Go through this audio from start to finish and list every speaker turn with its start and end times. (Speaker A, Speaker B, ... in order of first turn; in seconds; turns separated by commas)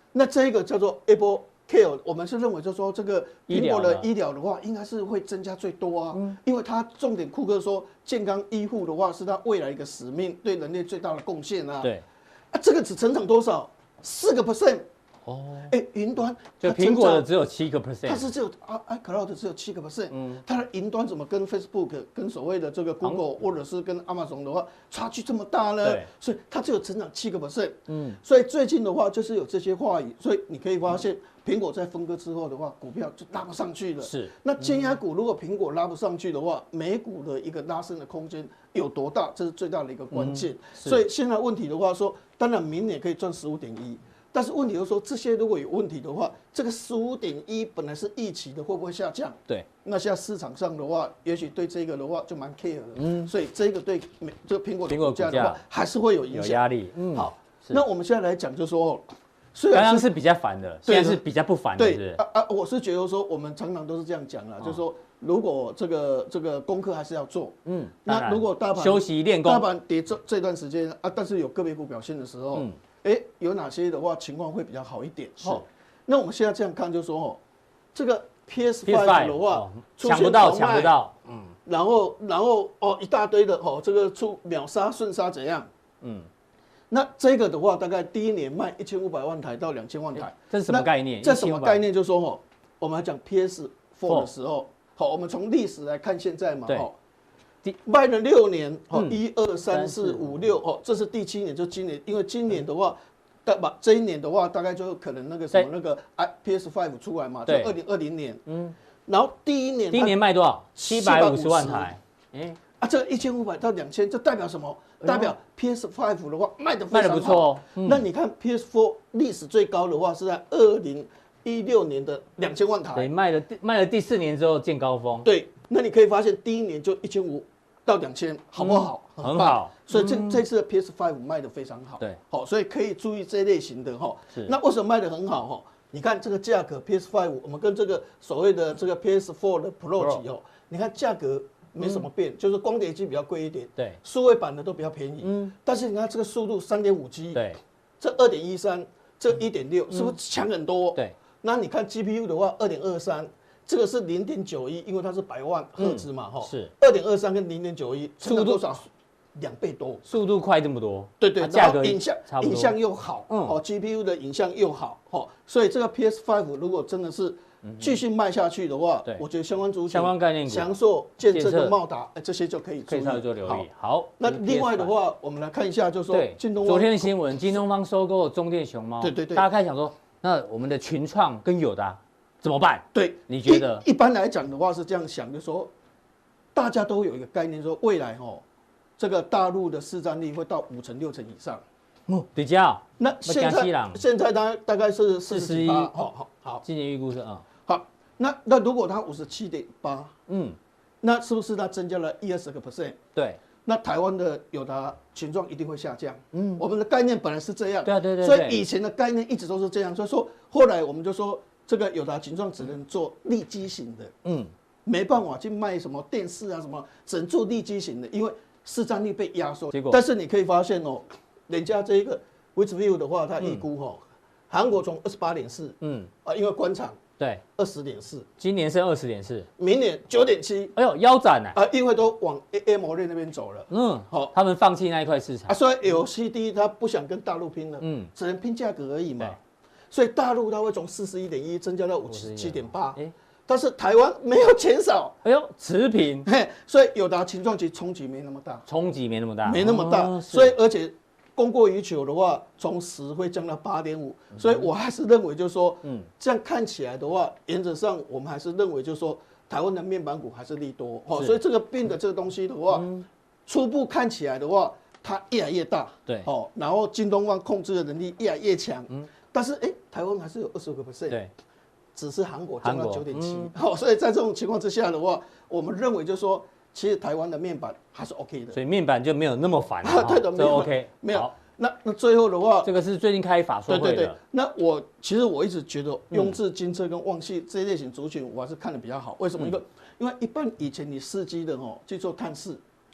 Speaker A: 0.1-11.9, Speaker B: 3.5-4.1, Speaker A: 12.5-14.9, Speaker B: 15.3-15.7, Speaker A: 15.7-17.3, Speaker B: 16.6-18.3, Speaker A: 18.1-60.1, Speaker B: 20.1-20.4, Speaker B: 27.9-28.2, Speaker B: 34.0-34.3, Speaker B: 40.1-41.0, Speaker B: 53.0-53.3, Speaker B: 54.9-55.6, Speaker B: 56.3-57.8, Speaker B: 59.7-62.2, Speaker A: 60.9-61.2, Speaker A: 61.8-77.4, Speaker B: 67.7-69.7, Speaker B: 75.4-75.7, Speaker A: 77.9-81.0, Speaker B: 78.9-81.5, Speaker A: 81.7-85.7, Speaker B: 86.0-86.3, Speaker A: 86.9-97.0, Speaker B: 90.3-91.8, Speaker A: 97.8-108.4, Speaker B: 99.7-100.5, Speaker B: 107.5-107.7, Speaker B: 108.5-108.8, Speaker A: 109.1-110.2, Speaker B: 109.9-112.6, Speaker A: 110.8-111.9, Speaker A: 112.8-123.1, Speaker B: 115.0-115.3, Speaker B: 116.9-118.0, Speaker B: 123.0-125.3, Speaker A: 125.2-147.4, Speaker B: 128.6-130.4, Speaker B: 145.2-145.5, Speaker B: 147.3-147.6, Speaker A: 148.0-160.1, Speaker B: 155.8-156.7, Speaker B: 158.2-158.6, Speaker B: 160.1-162.8, Speaker A: 161.2-177.1, Speaker B: 163.3-163.6, Speaker B: 167.6-168.0, Speaker B: 169.9-170.8, Speaker B: 171.3-171.8, Speaker B: 172.9-174.9, Speaker B: 176.1-183.8, Speaker A: 179.0-179.5, Speaker A: 182.9-185.7, Speaker A: 186.5-188.4, Speaker A: 189.0-191.6, Speaker B: 192.1-194.0, Speaker A: 193.0-196.6, Speaker B: 195.3-195.9, Speaker B: 196.6-197.4, Speaker A: 197.7-200.1, Speaker B: 200.3-200.6, Speaker A: 201.0-203.0, Speaker A: 203.7-214.1, Speaker B: 206.3-206.6, Speaker B: 207.8-208.6, Speaker B: 214.2-214.5, Speaker A: 214.8-227.0, Speaker B: 219.7-220.0, Speaker B: 225.8-226.1, Speaker A: 227.6-228.3, Speaker B: 228.4-229.5, Speaker A: 229.6-230.8, Speaker B: 230.8-231.6, Speaker A: 231.5-234.3, Speaker B: 233.7-235.6, Speaker A: 235.5-239.4, Speaker B: 237.8-238.1, Speaker A: 239.9-245.2, Speaker B: 242.1-243.1, Speaker B: 245.2-246.3, Speaker A: 246.2-248.7, Speaker B: 248.7-250.5, Speaker A: 249.4-262.9, Speaker B: 262.7-263.1, Speaker A: 263.5-271.2, Speaker A: 271.9-278.6, Speaker B: 272.6-273.5, Speaker B: 278.5-281.3, Speaker A: 279.8-282.7, Speaker B: 282.6-284.2, Speaker A: 283.7-292.6